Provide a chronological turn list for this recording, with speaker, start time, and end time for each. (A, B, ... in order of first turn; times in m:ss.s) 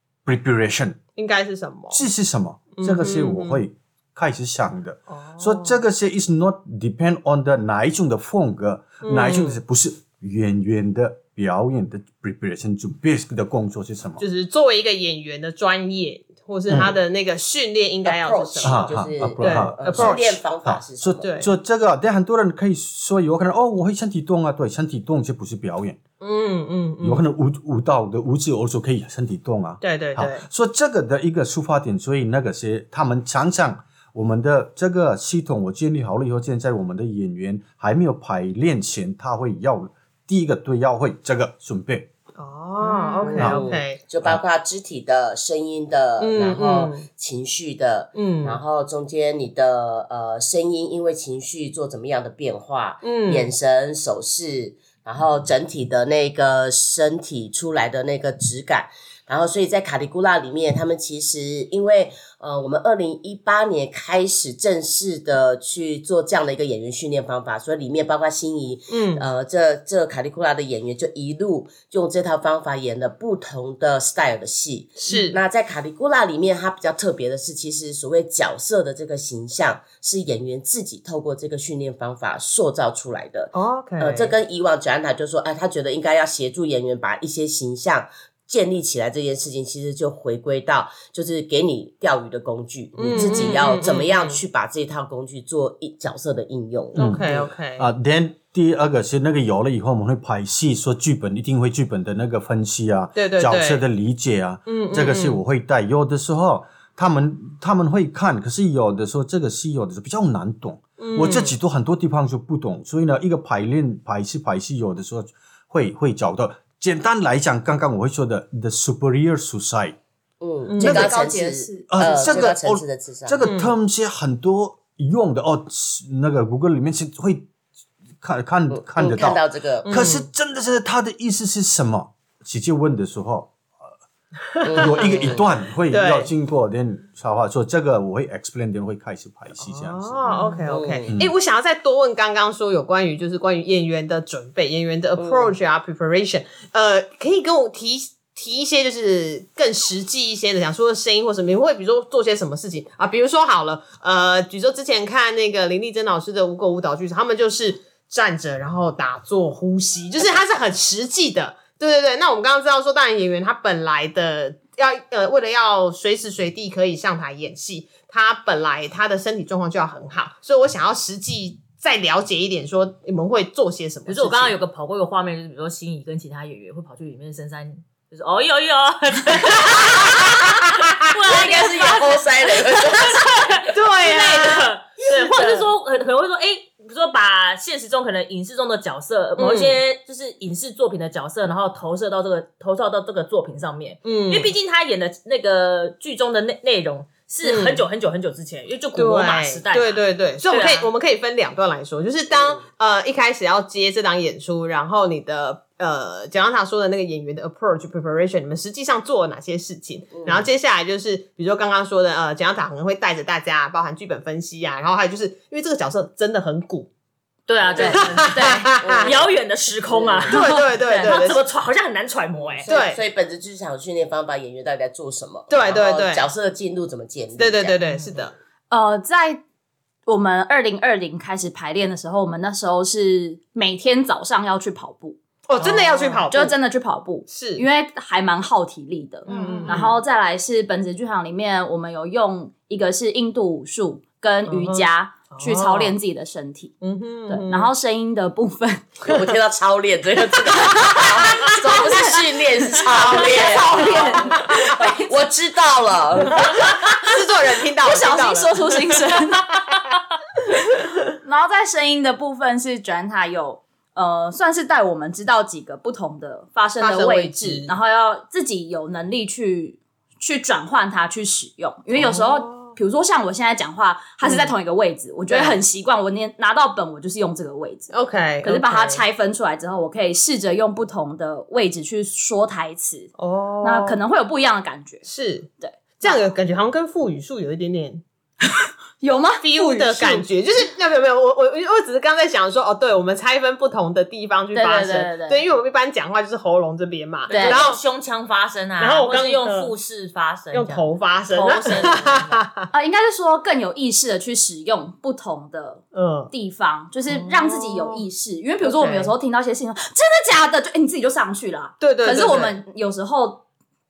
0:00.2-0:01.0 A
0:01.1-0:02.0 B
0:01.9-0:14.2 A
0:02.7-0:03.6 B
0:05.1-0:05.8 B
0:09.0-0:09.6 B
0:14.2-0:20.3 B
0:18.0-0:21.3 C
0:18.6-0:26.0 A
0:21.2-0:21.5 B
0:26.2-0:27.2 B
0:27.0-0:42.1 A
0:29.8-0:30.4 B
0:42.4-0:44.0 B
0:42.8-0:43.3 D
0:43.2-1:37.4 C
0:43.4-0:44.4 A
0:46.2-0:47.1 B
0:48.2-0:48.6 B
0:53.0-0:53.5 B
1:08.9-1:09.2 B
1:15.0-1:15.4 B
1:23.5-1:24.3 B
1:33.0-1:33.5 A
1:33.0-1:34.4 B
1:36.9-1:37.8 B
1:37.0-2:00.0 A
1:43.2-1:43.8 B
1:44.7-1:45.4 B
1:51.0-1:51.5 B
2:00.4-2:03.4 C
2:00.7-2:01.0 B
2:00.8-2:01.1 A
2:00.8-2:02.5 D
2:01.9-2:07.5 A
2:03.4-2:03.7 B
2:08.2-2:13.9 A
2:08.7-2:10.0 C
2:09.8-2:10.3 B
2:14.6-2:15.3 B
2:14.6-2:15.5 C
2:14.7-2:20.3 A
2:15.9-2:16.3 B
2:19.6-2:54.6 B
2:20.7-2:21.1 C
2:25.2-2:25.5 C
2:54.1-3:20.9 E
2:59.8-3:00.4 C
3:01.2-3:03.4 C
3:03.7-3:05.7 B
3:09.4-3:09.8 B
3:14.0-3:14.5 B
3:17.4-3:17.8 B
3:19.0-3:36.9 B
3:22.3-3:22.6 C
3:30.1-3:30.5 C
3:37.5-3:42.7 E
3:37.8-3:39.2 B
3:37.8-3:38.7 D
3:38.8-3:39.3 C
3:39.9-3:40.3 C
3:40.3-3:41.4 B
3:42.6-3:43.0 B
3:42.6-3:47.8 C
3:45.5-3:46.3 B
3:47.4-3:48.3 B
3:48.7-3:49.4 D
3:50.1-4:06.7 D
3:55.5-3:56.5 B
3:57.3-3:57.6 B
3:59.3-4:00.0 B
4:04.4-4:06.0 B
4:06.8-4:07.7 B
4:07.3-4:09.0 D
4:09.0-4:16.7 C
4:10.9-4:15.1 D
4:12.9-4:14.8 B
4:16.3-4:19.2 B
4:17.8-4:19.9 D
4:20.5-4:45.1 D
4:26.8-4:27.7 B
4:31.9-4:32.8 B
4:34.2-4:34.5 B
4:35.3-4:35.6 B
4:37.9-4:39.0 B
4:43.2-4:44.0 B
4:45.0-4:48.0 B
4:45.6-4:46.2 D
4:48.4-4:50.3 D
4:49.4-4:57.8 B
4:54.5-4:55.4 D
4:57.3-4:57.6 D
4:57.3-5:02.4 E
4:58.8-4:59.7 B
5:00.5-5:02.7 B
5:02.7-5:13.4 D
5:05.9-5:06.3 B
5:07.1-5:08.0 B
5:08.6-5:09.1 B
5:11.8-5:12.6 B